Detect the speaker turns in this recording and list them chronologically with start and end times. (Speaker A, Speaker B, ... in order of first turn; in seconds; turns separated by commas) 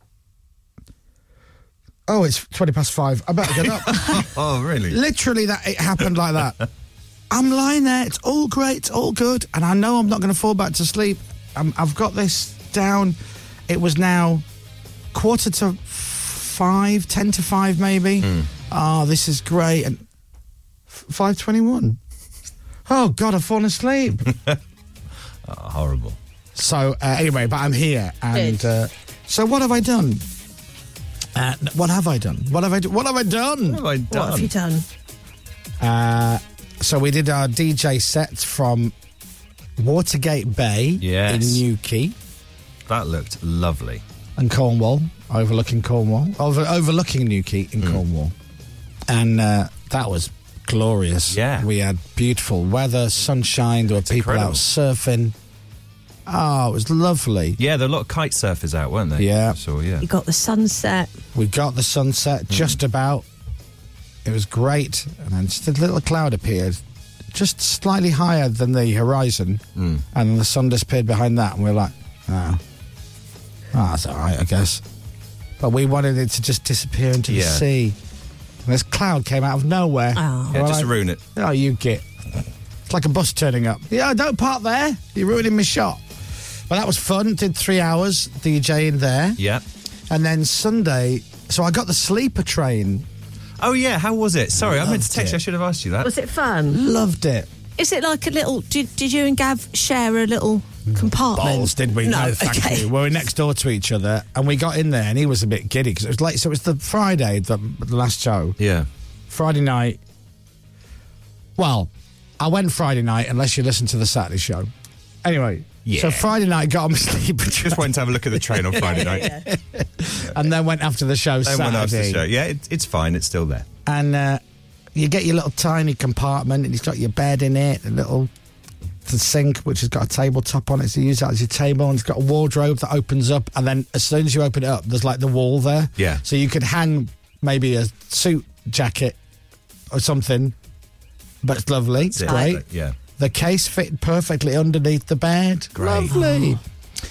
Speaker A: 2.1-4.2, Speaker B: 3.6-5.0, Speaker A: 4.9-6.6, Speaker A: 7.3-13.2, Speaker A: 13.7-14.4, Speaker A: 15.1-20.0, Speaker B: 18.2-18.5, Speaker A: 20.9-22.0, Speaker A: 22.9-24.3, Speaker B: 25.5-26.2, Speaker A: 26.6-30.2, Speaker C: 28.3-28.6, Speaker A: 31.4-33.8, Speaker B: 33.7-34.5, Speaker C: 34.1-34.9, Speaker A: 35.8-38.9, Speaker A: 39.8-42.1, Speaker B: 41.0-41.6, Speaker B: 42.9-44.0, Speaker A: 44.4-48.3, Speaker A: 49.1-55.4, Speaker B: 51.3-51.7, Speaker B: 54.1-54.6, Speaker A: 56.3-57.6, Speaker B: 57.6-60.0, Speaker A: 59.2-59.6, Speaker C: 60.0-61.1, Speaker A: 61.3-63.2, Speaker B: 62.5-62.8, Speaker A: 64.2-66.8, Speaker A: 67.3-72.6, Speaker B: 69.8-70.0, Speaker A: 73.7-74.8, Speaker A: 75.6-78.0, Speaker B: 77.3-77.7, Speaker A: 78.7-82.0, Speaker C: 80.2-80.6, Speaker B: 80.5-81.2, Speaker A: 82.9-86.0, Speaker A: 86.7-89.4, Speaker B: 89.4-89.6, Speaker A: 90.1-93.1, Speaker B: 93.6-96.1, Speaker A: 94.6-95.4, Speaker C: 96.0-96.8, Speaker A: 96.7-97.5, Speaker C: 97.8-102.9, Speaker A: 101.2-108.6, Speaker B: 108.6-108.9, Speaker A: 109.3-110.0, Speaker A: 111.6-114.7, Speaker A: 115.2-122.2, Speaker B: 115.8-116.3, Speaker B: 117.6-119.4, Speaker C: 118.8-119.5, Speaker B: 121.4-123.7, Speaker A: 123.9-124.4, Speaker A: 125.0-128.3, Speaker A: 129.1-139.2, Speaker A: 139.9-140.6, Speaker A: 141.4-142.6, Speaker B: 142.1-142.9, Speaker C: 142.3-142.5, Speaker A: 143.2-146.6, Speaker B: 145.8-146.1, Speaker C: 146.1-146.6